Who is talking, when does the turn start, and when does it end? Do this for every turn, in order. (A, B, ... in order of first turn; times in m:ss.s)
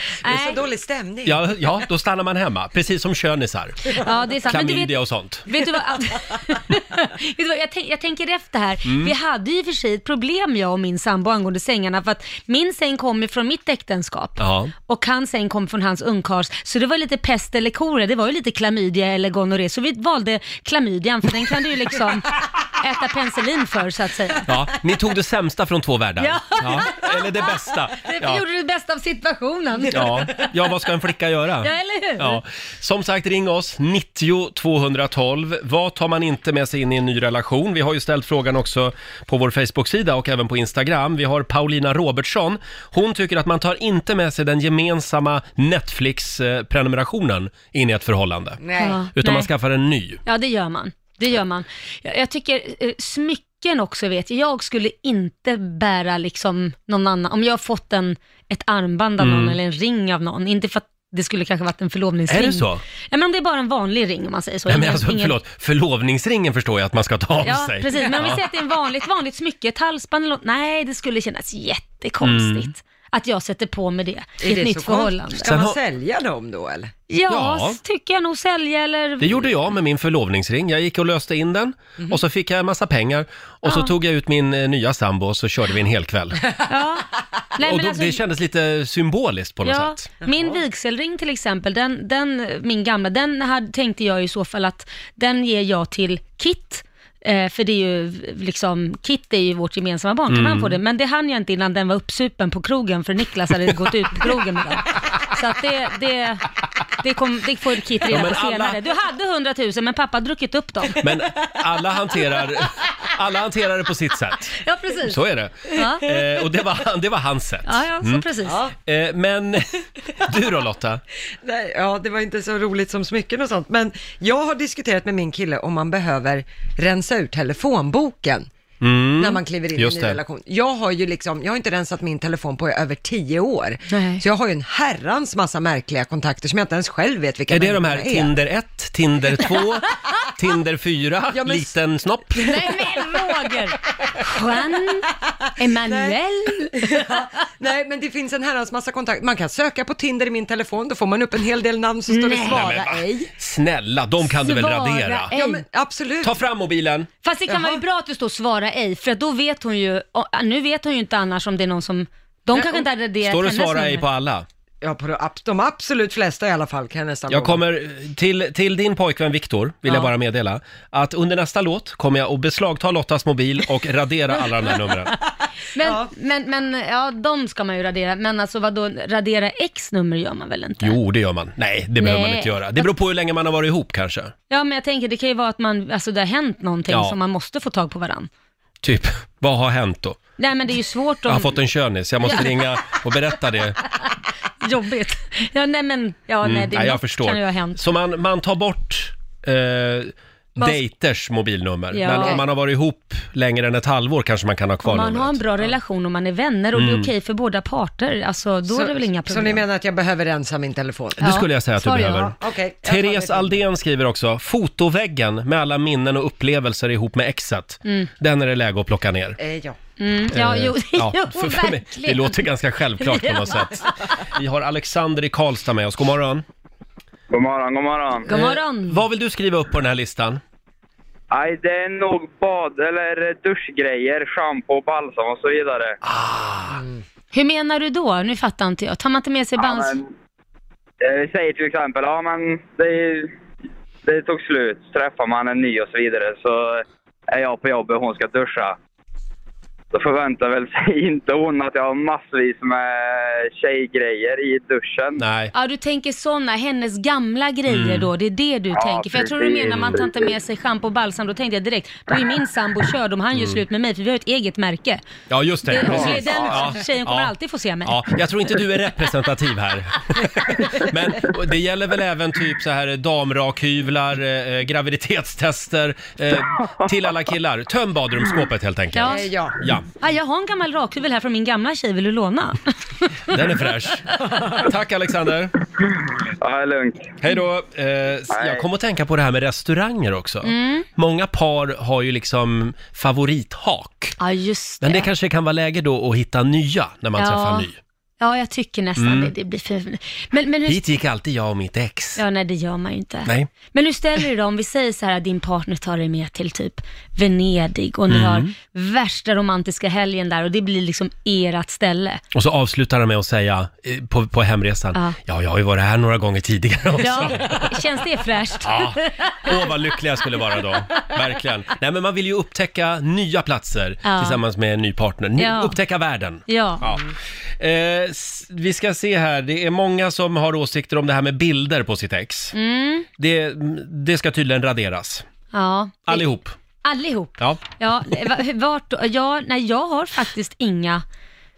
0:00.2-0:00.6 A
0:00.2-0:01.4 B
0:01.2-0:03.8 C
0:04.0-0:04.9 A
0:04.5-0:05.5 C
0:05.5-0:24.5 A
0:08.8-0:09.1 C
0:14.4-0:14.7 C
0:24.4-0:28.4 C
0:26.2-0:30.5 A
0:29.9-0:48.6 C
0:31.6-0:32.4 A
0:48.6-0:49.0 B
0:48.8-0:49.5 A
0:49.2-0:50.2 C
0:50.2-1:05.3 A
0:59.2-0:59.6 C
1:02.3-1:02.8 C
1:04.7-1:08.4 C
1:07.4-1:15.5 A
1:12.2-1:12.7 C
1:14.4-1:16.9 B
1:15.4-1:15.8 C
1:17.1-1:19.5 A
1:17.3-1:17.8 C
1:19.2-1:26.4 C
1:23.6-1:23.9 A
1:26.7-1:28.2 A
1:27.6-1:30.0 C
1:29.6-1:51.0 A
1:30.2-1:30.6 B
1:40.3-1:40.8 C
1:48.1-1:48.8 C
1:51.0-1:54.6 C
1:54.6-1:55.2 A
1:55.1-1:58.3 C
1:55.7-1:56.1 A
1:57.6-1:58.6 A
1:58.4-1:58.7 B
1:58.8-2:01.0 C
2:01.4-2:08.5 B
2:08.8-2:10.2 C
2:09.2-2:18.3 B
2:13.9-2:14.2 A
2:17.5-2:22.6 C
2:21.3-2:21.7 B
2:22.4-2:27.2 A
2:22.4-2:23.5 B
2:25.8-2:26.2 B
2:26.7-2:33.3 B
2:32.1-2:32.8 A
2:32.5-2:35.3 C
2:34.3-2:35.6 A
2:35.3-2:36.4 B
2:36.2-2:37.1 C
2:37.2-2:44.0 A
2:37.5-2:37.8 B
2:42.5-2:42.8 B
2:43.2-2:44.4 C
2:44.8-2:47.6 B
2:47.3-2:55.1 C
2:55.7-3:01.0 A
2:55.8-2:56.1 B
3:00.8-3:04.3 C
3:02.0-3:02.9 A
3:04.5-3:08.3 A
3:06.9-3:07.2 C
3:08.8-3:10.2 C
3:10.4-3:11.6 A
3:11.3-3:13.8 C
3:12.2-3:12.9 A
3:14.6-3:17.8 A
3:16.4-3:25.4 C
3:21.9-3:22.4 A
3:22.1-3:22.4 B
3:24.8-3:29.6 A
3:26.7-3:27.1 C
3:28.6-3:31.2 B
3:31.2-3:32.3 C
3:31.2-3:32.2 A
3:32.1-3:33.6 B
3:32.8-3:39.4 C
3:39.4-3:39.8 B
3:40.0-3:42.4 A
3:40.3-3:46.4 C
3:43.0-3:43.9 A
3:47.3-3:48.3 D
3:48.3-3:49.0 A
3:48.3-3:50.4 C
3:51.3-3:56.0 D
3:56.0-3:56.8 C
3:57.3-4:00.0 A
3:59.6-4:00.1 D
4:01.0-4:03.3 D
4:04.0-4:08.8 D
4:09.9-4:15.2 D
4:15.2-4:15.5 C
4:15.5-4:25.0 A
4:17.7-4:18.1 C
4:18.7-4:20.3 D
4:23.3-4:23.6 C
4:25.3-4:27.3 C
4:25.7-4:28.1 A
4:27.8-4:39.9 C
4:39.0-4:39.3 A
4:39.0-4:39.6 B
4:40.0-4:43.3 A
4:43.3-4:45.5 C
4:46.4-4:47.1 D
4:47.2-4:54.2 C
4:48.3-4:48.6 D
4:50.4-4:50.9 A
4:54.2-4:55.1 A
4:54.8-4:57.8 C
4:57.2-4:57.7 A
4:58.2-5:00.9 A
4:59.0-4:59.3 C
5:00.6-5:02.2 C
5:02.2-5:12.2 A
5:08.1-5:08.5 C
5:12.3-5:17.7 C
5:17.0-5:19.8 A
5:18.6-5:32.5 C
5:24.0-5:24.4 A
5:25.4-5:25.8 A
5:26.5-5:26.9 A
5:32.5-5:33.1 A
5:33.2-5:35.2 C
5:35.5-5:36.2 A
5:36.0-5:36.5 C
5:36.8-5:41.0 A